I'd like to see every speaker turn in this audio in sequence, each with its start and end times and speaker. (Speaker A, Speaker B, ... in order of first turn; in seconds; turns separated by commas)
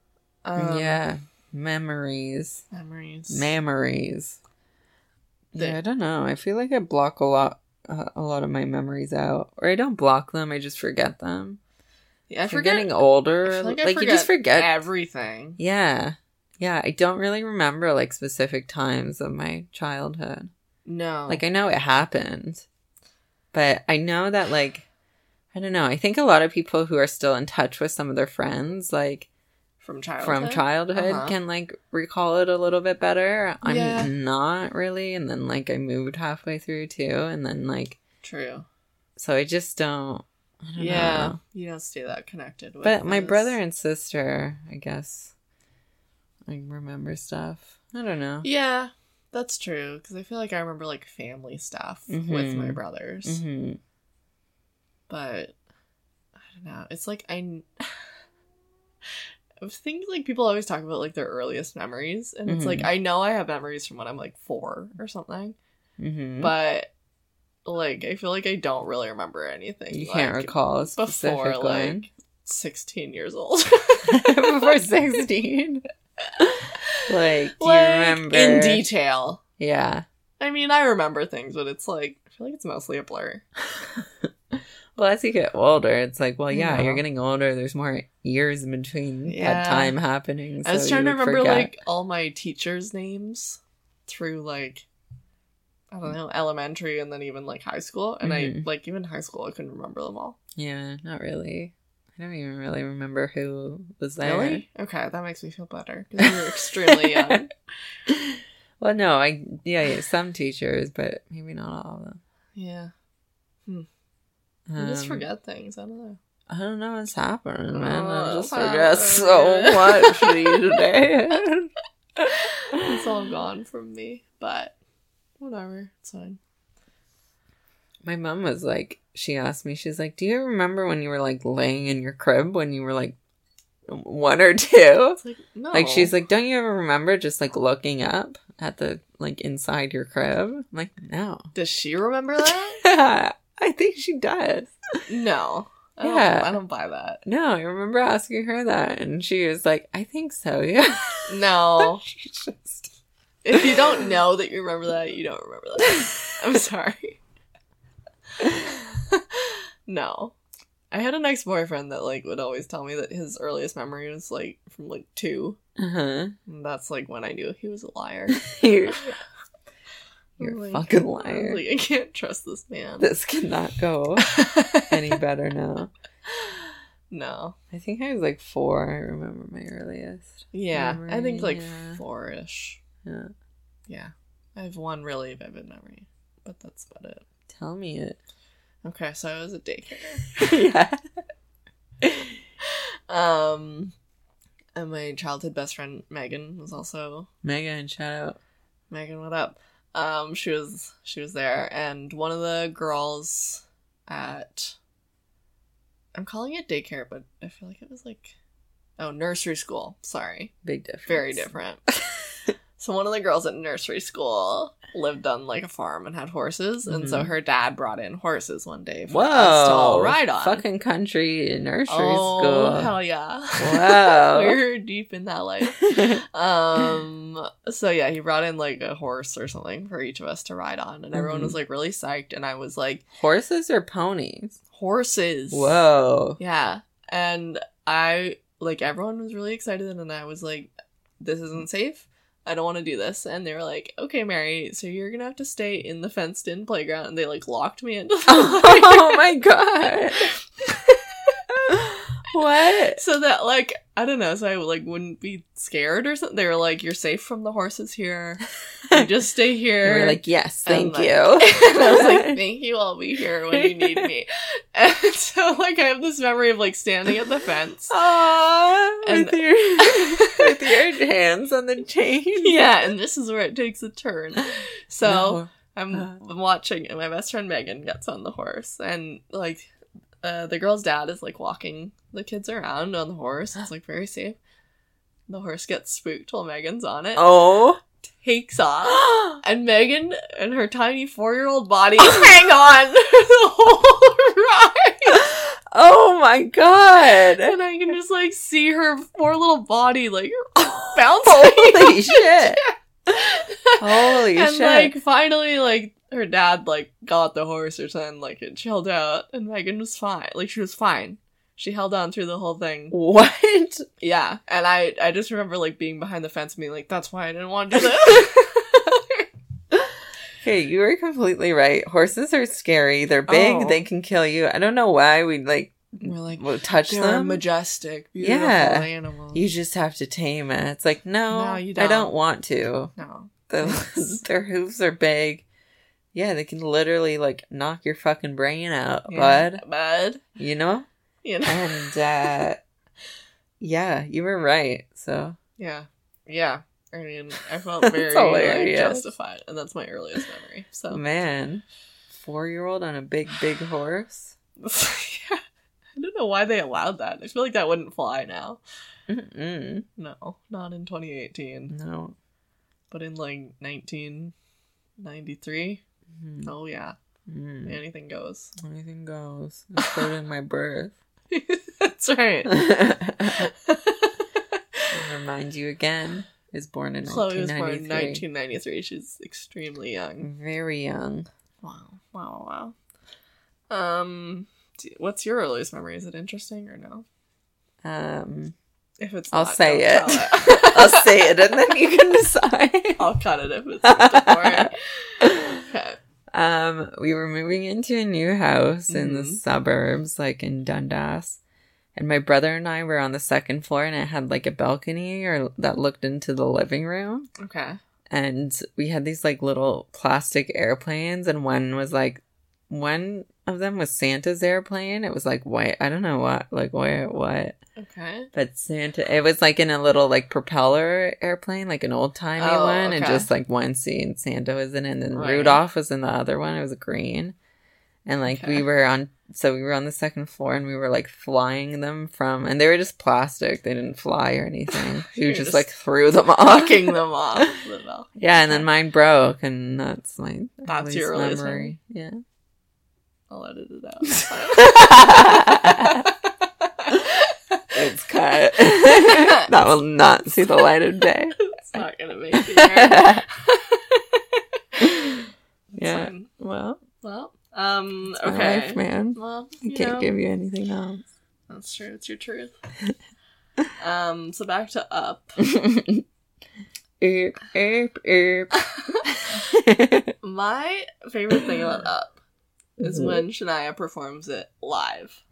Speaker A: 0.4-1.0, Speaker B: 0.6-2.6, Speaker A: 2.7-3.6, Speaker B: 3.3-4.4, Speaker B: 5.5-11.6, Speaker A: 12.3-12.9, Speaker B: 12.5-14.8, Speaker A: 13.4-15.6, Speaker B: 15.6-20.5, Speaker A: 20.9-21.4, Speaker B: 21.3-22.7, Speaker B: 23.5-24.9, Speaker B: 25.5-29.3, Speaker A: 29.8-31.4, Speaker B: 30.2-38.0, Speaker A: 33.6-34.1, Speaker A: 38.2-38.7, Speaker B: 39.2-41.4, Speaker A: 40.8-43.6, Speaker B: 42.8-45.3, Speaker B: 46.5-48.5, Speaker A: 48.4-53.4, Speaker B: 52.1-53.8, Speaker A: 55.1-55.5, Speaker A: 56.4-58.0, Speaker A: 59.6-65.6, Speaker B: 62.5-62.9, Speaker B: 66.0-66.5, Speaker A: 66.4-66.9, Speaker A: 67.7-74.7, Speaker B: 69.9-72.1, Speaker B: 74.1-75.8, Speaker B: 76.4-78.9, Speaker A: 77.6-79.4, Speaker B: 79.6-80.0, Speaker A: 80.4-83.5, Speaker B: 84.0-91.7, Speaker A: 86.5-87.0, Speaker A: 89.3-90.0, Speaker A: 90.6-94.9, Speaker A: 95.9-100.4, Speaker B: 98.2-98.7, Speaker B: 100.6-104.6, Speaker A: 104.2-107.5, Speaker B: 106.2-107.4, Speaker B: 108.1-112.2, Speaker A: 112.6-112.9, Speaker B: 114.7-115.2, Speaker A: 114.8-116.2, Speaker B: 116.5-123.0, Speaker A: 117.7-120.6, Speaker A: 122.4-124.7, Speaker A: 125.4-126.4, Speaker B: 128.0-133.2, Speaker B: 133.9-135.2, Speaker A: 135.2-136.1, Speaker B: 135.7-141.5, Speaker A: 141.6-142.8, Speaker B: 142.8-144.7, Speaker A: 145.1-147.2, Speaker B: 146.0-146.6, Speaker B: 147.2-152.9, Speaker A: 151.3-152.0, Speaker A: 153.4-157.2, Speaker B: 153.5-153.8, Speaker A: 158.5-160.3, Speaker A: 160.9-165.6, Speaker B: 165.8-166.3, Speaker A: 166.5-169.0, Speaker B: 168.3-169.2, Speaker A: 170.4-173.1, Speaker B: 170.4-171.6, Speaker B: 173.0-175.9, Speaker A: 174.2-174.9, Speaker A: 177.1-177.6, Speaker B: 177.7-182.0, Speaker A: 180.5-182.8, Speaker B: 183.0-183.3, Speaker A: 183.9-187.2, Speaker B: 187.5-188.2, Speaker A: 188.8-190.3, Speaker B: 190.4-191.0, Speaker B: 192.0-192.3, Speaker A: 192.7-193.9, Speaker A: 194.8-197.3, Speaker B: 197.4-198.4, Speaker A: 198.9-204.8, Speaker A: 206.2-208.3, Speaker A: 209.0-210.5, Speaker B: 210.6-211.5, Speaker A: 211.1-211.8, Speaker A: 212.8-220.6, Speaker B: 216.9-217.3, Speaker B: 219.1-222.9, Speaker A: 221.9-233.0, Speaker B: 223.6-224.6, Speaker B: 225.8-226.2, Speaker B: 231.1-231.6, Speaker B: 233.2-234.6, Speaker A: 234.7-235.8, Speaker B: 235.5-236.4, Speaker A: 236.4-249.2, Speaker B: 248.3-250.3, Speaker A: 250.2-251.4, Speaker B: 251.7-253.0, Speaker A: 252.9-268.0, Speaker B: 259.8-262.4, Speaker B: 263.6-264.1, Speaker B: 267.9-272.6, Speaker A: 269.0-270.7, Speaker A: 272.4-279.7, Speaker B: 275.0-276.2, Speaker A: 280.2-284.4, Speaker A: 285.3-287.3, Speaker B: 287.2-287.8, Speaker A: 288.2-295.2, Speaker B: 289.0-289.4, Speaker B: 295.1-297.6, Speaker A: 297.4-313.0, Speaker B: 301.1-302.6, Speaker B: 303.8-305.0, Speaker B: 312.9-313.9, Speaker A: 314.0-319.3, Speaker B: 320.4-327.4, Speaker A: 323.3-323.9, Speaker A: 326.0-329.4, Speaker B: 328.2-332.9, Speaker A: 331.3-332.1, Speaker A: 333.0-334.2, Speaker B: 333.5-335.4, Speaker B: 336.1-339.6, Speaker A: 339.1-340.2, Speaker B: 340.4-340.9, Speaker A: 341.2-342.0, Speaker B: 341.4-342.6, Speaker B: 343.6-345.4, Speaker A: 345.6-351.0, Speaker B: 347.8-349.1, Speaker B: 350.9-354.4, Speaker A: 354.6-355.4, Speaker A: 356.0-358.6, Speaker B: 359.1-359.9, Speaker A: 360.0-361.7, Speaker B: 361.7-362.1, Speaker A: 362.9-364.3, Speaker A: 365.0-365.8, Speaker B: 366.1-366.5, Speaker A: 366.4-367.0, Speaker B: 367.3-367.8, Speaker A: 367.6-368.6, Speaker B: 368.6-370.9, Speaker A: 371.3-372.7, Speaker B: 372.5-373.5, Speaker A: 373.4-374.9, Speaker B: 374.9-378.2, Speaker A: 377.0-380.3, Speaker B: 380.2-381.3, Speaker A: 381.6-382.8, Speaker A: 383.7-387.1, Speaker B: 387.8-388.6, Speaker A: 389.0-391.1, Speaker B: 389.3-393.0, Speaker A: 393.0-396.0, Speaker B: 393.9-394.7, Speaker B: 395.2-395.6, Speaker B: 396.3-401.4, Speaker A: 398.9-399.4, Speaker B: 401.9-407.3, Speaker A: 407.4-407.8, Speaker B: 408.1-417.6, Speaker A: 417.8-418.3, Speaker B: 418.3-427.4, Speaker A: 422.4-423.3, Speaker A: 425.1-425.6, Speaker B: 428.1-437.5, Speaker A: 428.3-428.6, Speaker A: 435.1-435.7, Speaker A: 436.3-438.7, Speaker B: 438.2-442.2, Speaker A: 440.7-441.7, Speaker A: 443.3-447.8, Speaker B: 444.3-446.1, Speaker B: 447.7-451.4, Speaker A: 448.9-449.4, Speaker A: 451.4-455.2, Speaker B: 452.3-453.2, Speaker B: 454.8-455.2, Speaker A: 455.7-456.3, Speaker B: 455.8-456.8, Speaker A: 457.0-460.1, Speaker B: 458.2-461.1, Speaker A: 461.5-462.5, Speaker A: 463.8-465.4, Speaker B: 465.4-466.1, Speaker B: 467.0-468.5, Speaker B: 469.0-470.1, Speaker A: 470.2-472.2, Speaker A: 472.8-475.2, Speaker B: 472.8-473.2